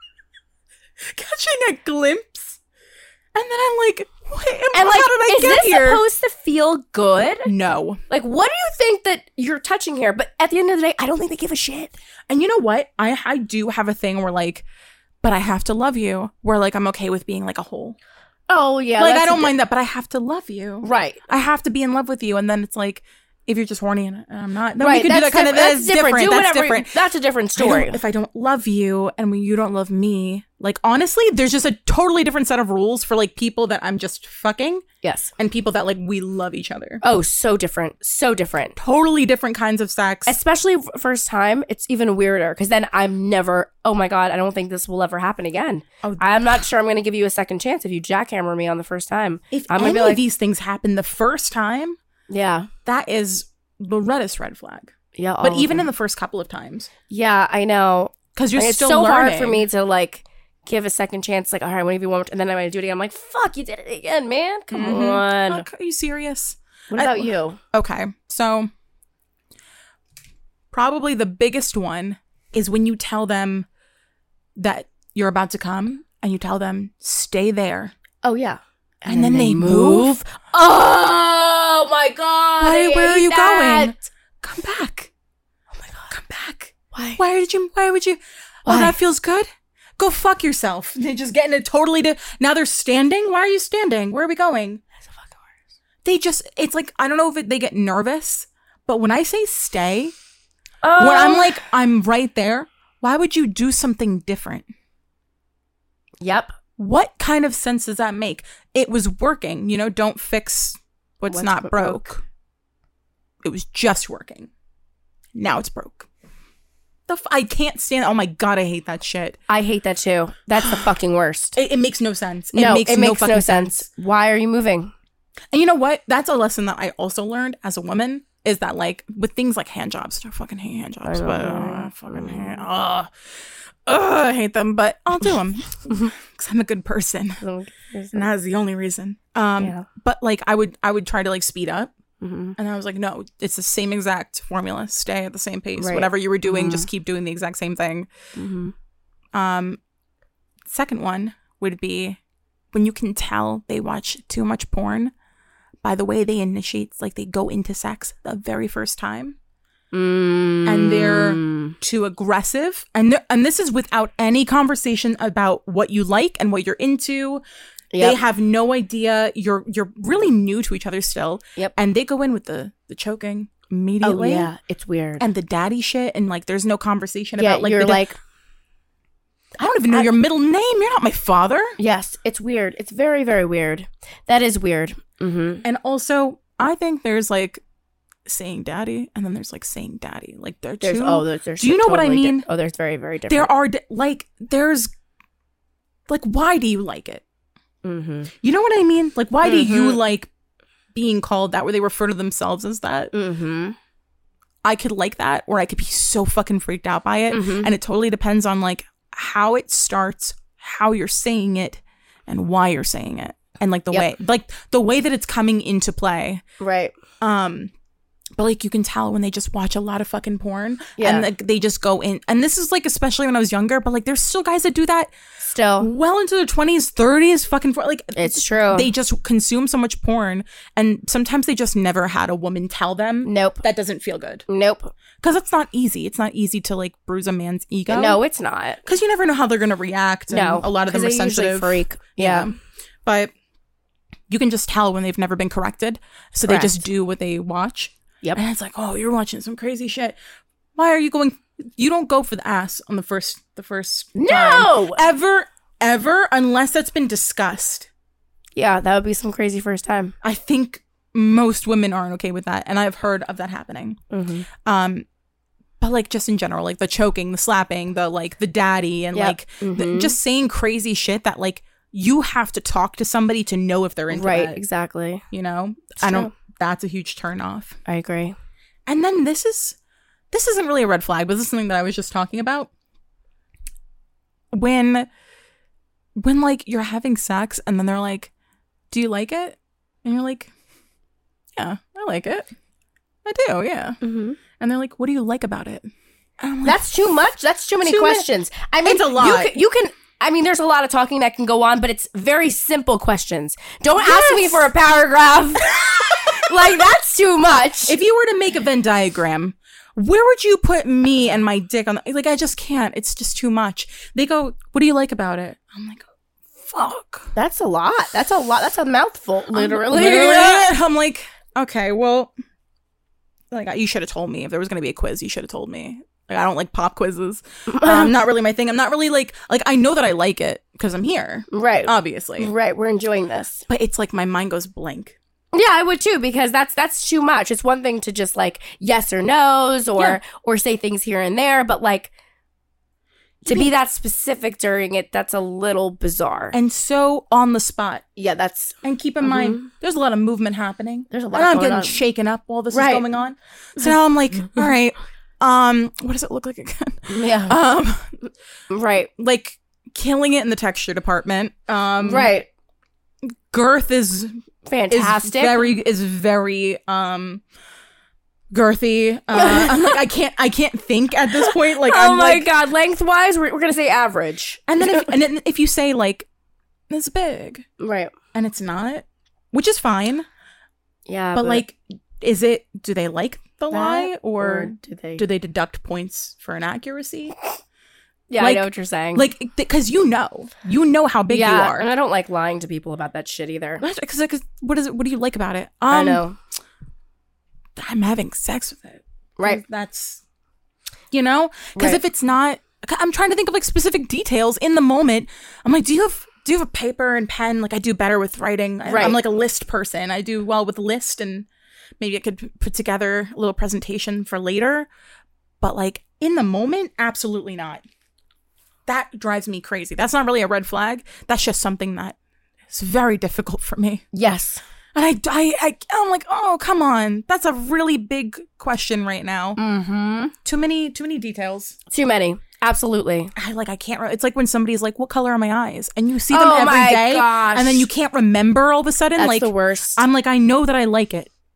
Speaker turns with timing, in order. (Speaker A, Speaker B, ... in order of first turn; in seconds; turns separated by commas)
Speaker A: 1.1-2.6, Speaker A: 3.3-6.0, Speaker B: 4.7-7.5, Speaker A: 7.5-8.0, Speaker B: 8.1-12.0, Speaker A: 12.3-14.7, Speaker A: 15.2-18.0, Speaker B: 18.5-19.5, Speaker A: 19.0-27.0, Speaker B: 20.8-21.2, Speaker B: 24.8-28.0, Speaker A: 27.6-34.9, Speaker B: 35.0-35.3, Speaker A: 35.4-37.0, Speaker B: 37.0-38.8, Speaker A: 38.8-40.4, Speaker B: 40.3-50.2, Speaker A: 46.0-46.6, Speaker A: 49.5-52.0, Speaker B: 52.3-52.7, Speaker A: 52.9-56.9, Speaker B: 55.1-55.9, Speaker B: 57.1-65.7, Speaker A: 58.4-59.7, Speaker A: 64.7-68.7, Speaker B: 66.9-67.6, Speaker A: 70.7-73.7, Speaker A: 74.6-78.0, Speaker B: 78.2-84.0, Speaker A: 79.1-80.2, Speaker A: 82.6-85.1, Speaker B: 85.8-86.1, Speaker A: 86.1-94.8, Speaker B: 86.9-87.2, Speaker B: 88.7-89.0, Speaker A: 96.0-100.1, Speaker B: 100.8-101.6, Speaker A: 101.0-104.7, Speaker B: 106.2-106.5, Speaker A: 106.8-112.2, Speaker B: 111.3-112.0, Speaker A: 113.4-114.5, Speaker A: 115.3-116.1, Speaker A: 117.1-119.4, Speaker B: 119.5-121.6, Speaker A: 121.6-123.9, Speaker B: 122.5-124.9, Speaker A: 125.5-133.1, Speaker B: 131.0-132.6, Speaker A: 133.9-137.4, Speaker B: 137.4-138.3, Speaker A: 138.1-141.9, Speaker B: 139.6-139.9, Speaker B: 142.2-142.6, Speaker A: 142.6-148.1, Speaker B: 145.8-146.9, Speaker B: 148.3-148.7, Speaker A: 149.3-149.8, Speaker A: 150.7-152.2, Speaker A: 152.7-155.1, Speaker A: 155.8-159.4, Speaker B: 159.9-161.8, Speaker A: 160.7-167.4, Speaker B: 167.9-168.2, Speaker A: 168.0-174.5, Speaker B: 174.0-175.2, Speaker A: 175.2-178.1, Speaker B: 177.4-178.2, Speaker A: 179.6-181.8, Speaker B: 181.8-185.7, Speaker A: 185.6-187.6, Speaker A: 188.3-192.5, Speaker B: 190.8-193.5, Speaker A: 193.3-194.9, Speaker A: 196.1-197.2, Speaker B: 197.8-198.3, Speaker A: 198.4-200.3, Speaker B: 199.4-200.0, Speaker A: 200.9-203.1, Speaker B: 203.1-203.8, Speaker A: 204.6-216.4, Speaker B: 207.3-207.7, Speaker B: 216.6-216.9, Speaker A: 217.2-217.7, Speaker A: 218.4-225.1, Speaker B: 221.0-221.3, Speaker B: 225.4-225.9, Speaker A: 225.8-234.4, Speaker B: 228.2-228.9, Speaker B: 233.2-233.6, Speaker B: 234.5-234.9, Speaker A: 235.2-238.2, Speaker B: 237.9-238.8, Speaker A: 238.8-243.3, Speaker B: 240.3-242.5, Speaker A: 244.3-250.2, Speaker B: 246.5-246.8, Speaker A: 250.8-257.9, Speaker B: 254.2-255.0, Speaker B: 258.6-260.1, Speaker A: 260.2-264.0, Speaker B: 264.1-264.5, Speaker A: 264.6-265.1, Speaker A: 265.8-274.6, Speaker B: 269.1-270.2, Speaker B: 274.1-275.2, Speaker A: 275.3-277.8, Speaker B: 276.0-276.3, Speaker B: 277.9-278.4, Speaker A: 278.9-279.8, Speaker A: 280.3-282.7, Speaker A: 284.5-285.1, Speaker A: 286.2-288.3, Speaker A: 288.9-290.5, Speaker A: 291.6-292.5, Speaker A: 293.2-294.0, Speaker B: 294.0-294.4, Speaker A: 294.6-295.9, Speaker A: 296.4-296.9, Speaker B: 296.6-308.0, Speaker A: 297.8-298.3, Speaker A: 298.8-299.5, Speaker A: 304.0-304.7, Speaker A: 305.6-306.7, Speaker A: 307.9-316.1, Speaker A: 316.6-317.3, Speaker B: 317.4-320.7, Speaker A: 319.5-322.3, Speaker A: 323.5-332.5, Speaker B: 327.7-328.1, Speaker B: 331.5-333.6, Speaker A: 333.7-335.2, Speaker B: 335.5-342.1, Speaker B: 343.4-346.6, Speaker A: 343.5-343.7, Speaker A: 346.5-348.1, Speaker B: 348.2-349.7, Speaker A: 348.8-358.1, Speaker B: 351.1-352.0, Speaker B: 352.7-353.1, Speaker B: 357.1-357.6, Speaker B: 358.7-359.1, Speaker A: 359.2-362.3, Speaker B: 362.0-362.5, Speaker A: 363.3-364.3, Speaker B: 364.7-365.7, Speaker A: 364.9-367.4, Speaker A: 368.5-372.5, Speaker B: 369.3-370.0, Speaker B: 371.4-375.1, Speaker A: 374.7-376.3, Speaker A: 376.9-377.6, Speaker B: 377.8-378.1, Speaker A: 378.3-380.3, Speaker B: 381.1-381.6, Speaker A: 381.3-387.4, Speaker B: 383.7-385.2, Speaker B: 388.3-389.3, Speaker A: 388.4-391.9, Speaker B: 391.3-393.8, Speaker A: 393.8-396.2, Speaker B: 395.9-396.4, Speaker A: 397.8-400.2, Speaker A: 401.1-411.5, Speaker B: 401.8-402.0, Speaker B: 408.9-409.2, Speaker A: 412.0-414.9, Speaker A: 415.6-417.8, Speaker A: 418.9-422.2, Speaker A: 422.7-424.1, Speaker B: 424.1-424.6, Speaker A: 424.9-429.6, Speaker B: 429.6-430.3, Speaker A: 430.4-431.8, Speaker B: 431.9-433.3, Speaker A: 433.4-441.3, Speaker B: 436.3-437.9, Speaker B: 439.2-440.0